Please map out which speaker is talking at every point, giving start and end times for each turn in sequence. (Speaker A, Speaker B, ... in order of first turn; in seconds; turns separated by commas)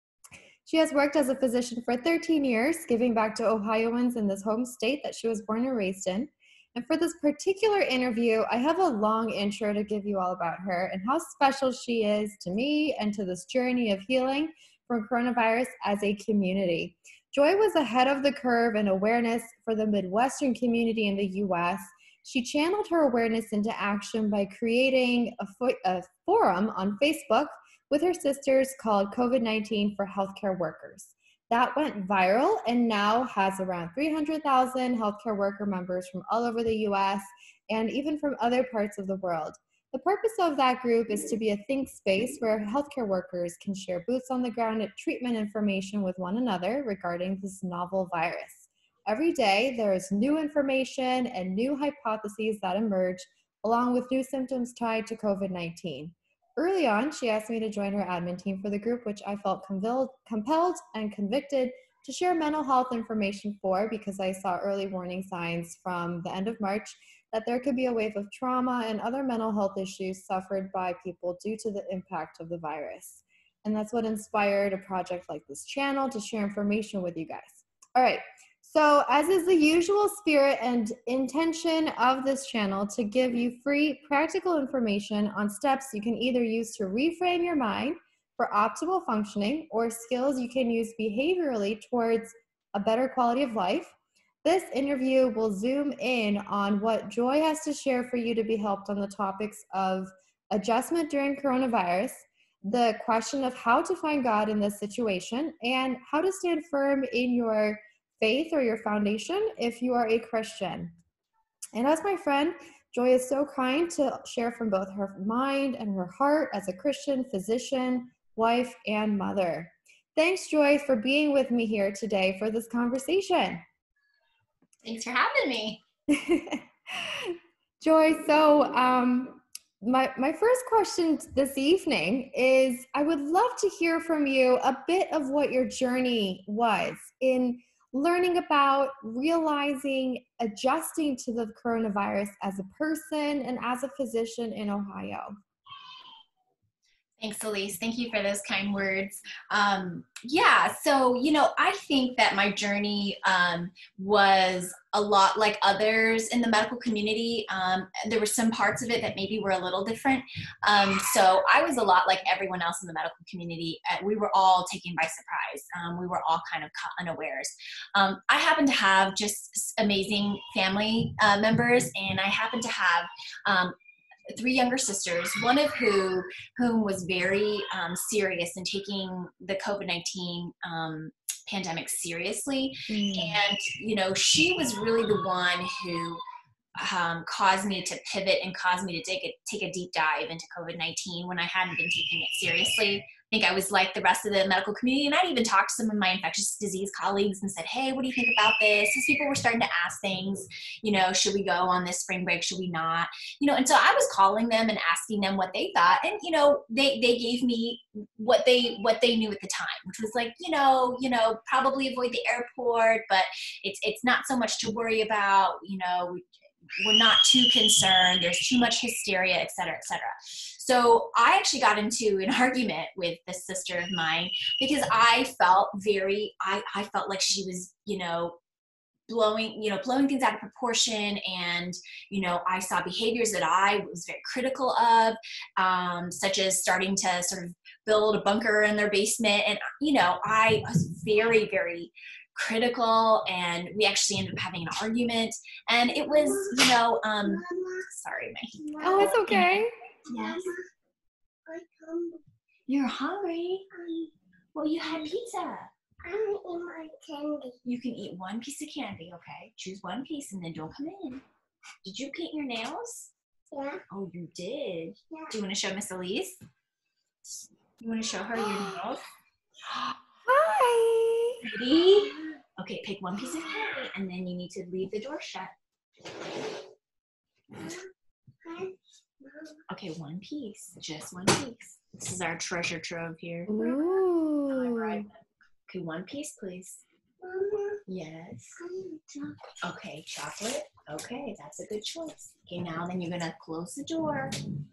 Speaker A: 0.6-110.9, Speaker A: 111.7-123.6, Speaker B: 124.8-125.8, Speaker A: 126.1-145.3, Speaker B: 147.2-173.7, Speaker B: 174.3-186.2, Speaker A: 182.9-183.4, Speaker B: 186.8-216.2, Speaker B: 216.8-228.4, Speaker B: 229.1-249.5, Speaker C: 245.9-246.6, Speaker C: 247.2-247.8, Speaker C: 248.6-249.2, Speaker A: 248.8-249.7, Speaker C: 250.1-250.6, Speaker B: 250.1-250.5, Speaker C: 251.5-252.2, Speaker B: 252.7-253.7, Speaker C: 253.7-254.1, Speaker B: 254.5-255.7, Speaker C: 254.8-255.1, Speaker C: 256.0-257.6, Speaker B: 257.6-261.2, Speaker B: 261.8-263.1, Speaker C: 263.5-263.8, Speaker B: 263.9-266.4, Speaker B: 267.8-269.0, Speaker C: 268.5-268.8, Speaker A: 270.2-271.4, Speaker B: 271.4-275.5, Speaker C: 271.9-272.3, Speaker C: 273.2-273.6, Speaker C: 277.5-277.8, Speaker C: 278.4-279.6, Speaker B: 279.7-283.5, Speaker A: 283.5-285.1, Speaker C: 283.6-284.0, Speaker B: 284.5-285.1, Speaker B: 285.7-286.8, Speaker C: 287.2-287.8, Speaker B: 287.9-288.6, Speaker C: 288.6-289.5, Speaker B: 289.6-294.3